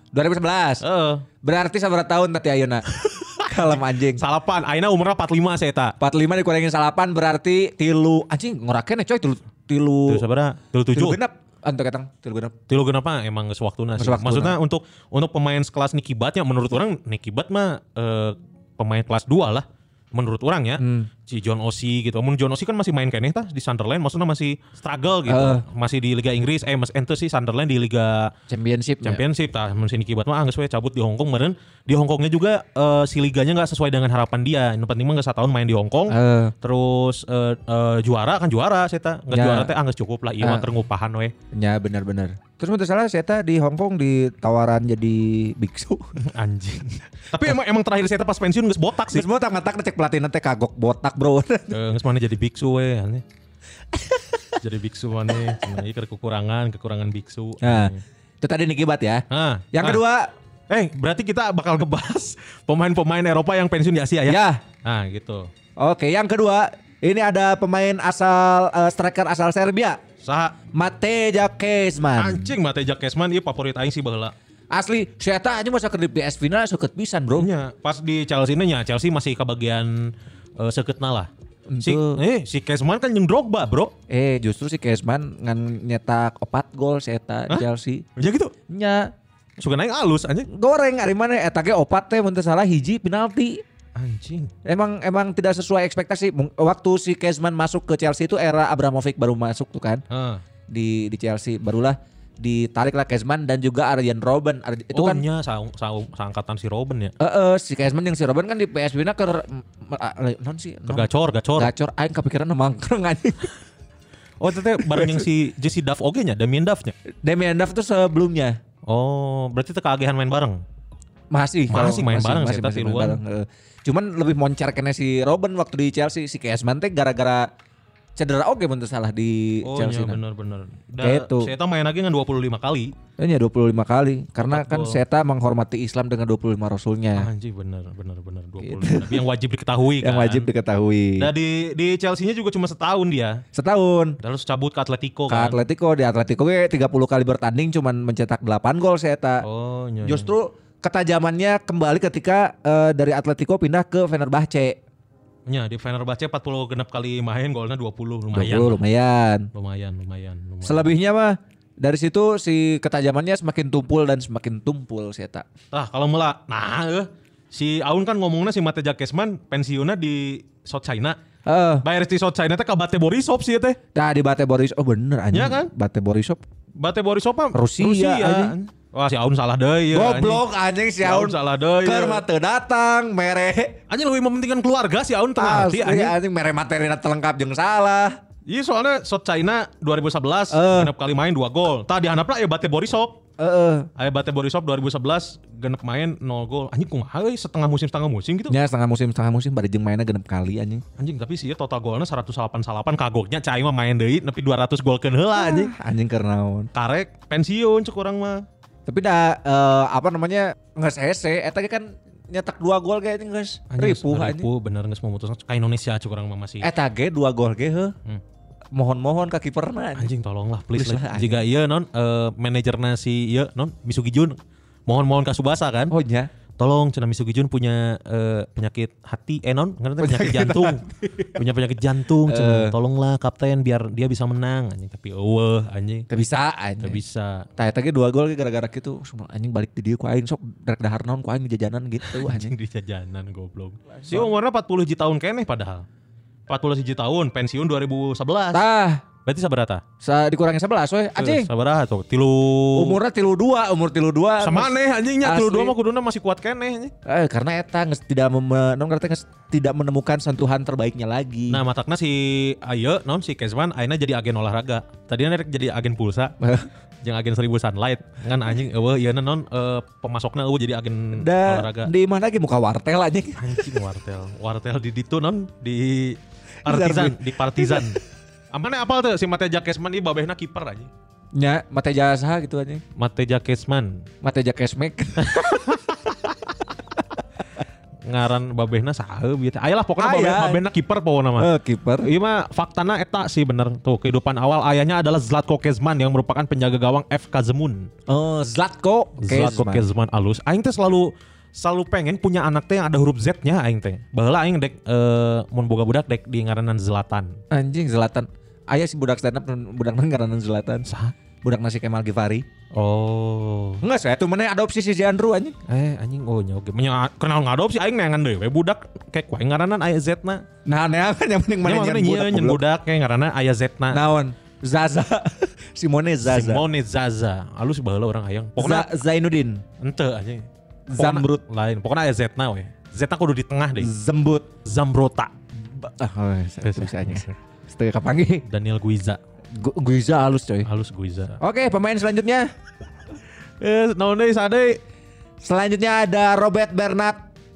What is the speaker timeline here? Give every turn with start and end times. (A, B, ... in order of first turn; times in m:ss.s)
0:00.1-0:00.8 A
0:00.8-0:01.2 B
0:01.4-0:04.2 A
0:03.0-0:05.9 B
0:06.0-0:10.2 A
0:10.1-0:11.2 B
0:10.9-0:12.5 A
0:12.7-0:28.3 B
0:14.0-0:14.6 A
0:20.8-0:21.1 A
0:25.3-0:25.6 A
0:28.5-0:29.2 A
0:29.0-0:41.3 B
0:36.1-0:36.5 A
0:39.3-0:39.7 A
0:40.4-0:40.7 A
0:41.5-0:46.1 A
0:46.2-0:49.3 B
0:49.1-0:51.8 A
0:51.7-0:53.2 B
0:53.9-0:54.5 A
0:54.6-0:58.0 B
0:57.6-1:00.3 A
0:59.3-1:00.0 B
1:00.7-1:05.5 B
1:04.3-1:04.6 A
1:05.8-1:10.0 A
1:10.2-1:10.6 B
1:10.7-1:12.5 A
1:12.2-1:14.3 B
1:14.7-1:17.5 A
1:17.4-1:21.3 B
1:21.7-1:22.2 A
1:21.8-1:23.9 B
1:24.1-1:28.0 A
1:27.5-1:28.5 B
1:28.7-1:29.1 A
1:29.6-1:30.5 B
1:30.5-1:33.6 A
1:34.0-1:34.5 B
1:34.6-1:40.0 A
1:40.1-1:40.4 B
1:40.7-1:45.2 A
1:44.9-1:47.1 B
1:47.2-1:53.5 A
1:50.9-1:51.7 B
1:54.4-1:56.9 B
1:54.8-1:55.2 A
1:57.2-1:58.6 A
1:58.8-2:00.6 B
2:01.3-2:07.5 A
2:01.7-2:03.2 B
2:08.2-2:10.2 A
2:09.6-2:12.9 B
2:11.0-2:11.5 A
2:13.2-2:17.3 A
2:14.4-2:15.0 B
2:17.1-2:20.5 B
2:18.6-2:19.2 A
2:20.0-2:21.3 A
2:21.2-2:23.4 B
2:23.5-2:24.2 A
2:24.2-2:25.6 B
2:25.3-2:29.4 A
2:29.4-2:30.3 B
2:30.0-2:34.8 A
2:35.5-2:38.8 B
2:38.3-2:39.5 A
2:39.5-2:40.9 B
2:40.6-2:45.4 A
2:45.7-2:51.2 B
2:51.4-2:51.8 A
2:51.8-2:53.8 B
2:53.9-2:56.4 A
2:55.3-2:55.7 B
2:56.8-3:00.4 B
2:57.5-2:58.5 A
2:59.9-3:03.8 A
3:01.0-3:02.2 B
3:03.9-3:06.2 B
3:05.4-3:08.2 A
3:08.4-3:13.2 B
3:10.5-3:10.9 A
3:13.4-3:13.9 A
3:14.0-3:18.5 B
3:18.5-3:20.8 A
3:21.0-3:25.7 B
3:25.4-3:26.7 A
3:26.7-3:28.4 B
3:28.9-3:34.5 A
3:33.7-3:36.7 B
3:36.6-3:37.9 A
3:38.7-3:40.1 A
3:40.0-3:45.9 B
3:40.7-3:41.4 A
3:45.9-3:46.3 A
3:46.6-3:50.8 B
3:50.0-3:51.4 A
3:51.4-3:56.1 B
3:52.2-3:52.7 A
3:56.1-3:57.0 A
3:56.8-3:57.5 B
3:57.6-4:02.5 A
4:02.0-4:05.8 B
4:03.9-4:04.3 A
4:06.5-4:08.6 B
4:08.5-4:09.0 A
4:09.2-4:09.8 B
4:10.0-4:11.5 A
4:11.2-4:13.0 B
4:12.7-4:15.7 A
4:14.4-4:16.9 B
4:17.0-4:21.6 A
4:21.5-4:26.3 B
4:26.4-4:26.7 A
4:27.0-4:31.9 B
4:31.1-4:33.6 A
4:33.4-4:38.0 B
4:36.6-4:37.9 A
4:38.5-4:40.9 B
4:41.4-4:42.8 A
4:43.0-4:44.0 B
4:44.2-4:45.8 A
4:45.2-4:45.9 B
4:48.0-4:51.5 B
4:50.0-4:50.6 A
4:51.4-4:52.1 A
4:52.0-4:57.9 B
4:58.1-4:59.8 A
4:59.2-5:07.4 B
5:07.5-5:10.9 A
5:10.9-5:11.1 B
5:11.4-5:12.4 A
5:12.7-5:13.8 B
5:13.8-5:15.6 A
5:15.7-5:20.4 B
5:20.6-5:22.6 A
5:21.6-5:24.0 B
5:23.9-5:26.6 A
5:26.2-5:28.9 B
5:28.6-5:29.6 A
5:29.8-5:33.9 B
5:30.9-5:31.4 A
5:33.8-5:34.5 A
5:34.6-5:35.3 B
5:35.8-5:38.4 A
5:36.6-5:37.3 B
5:38.5-5:39.2 B
5:39.5-5:40.7 A
5:40.6-5:41.4 B
5:41.4-5:42.5 A
5:43.6-5:44.8 B
5:45.4-5:47.2 A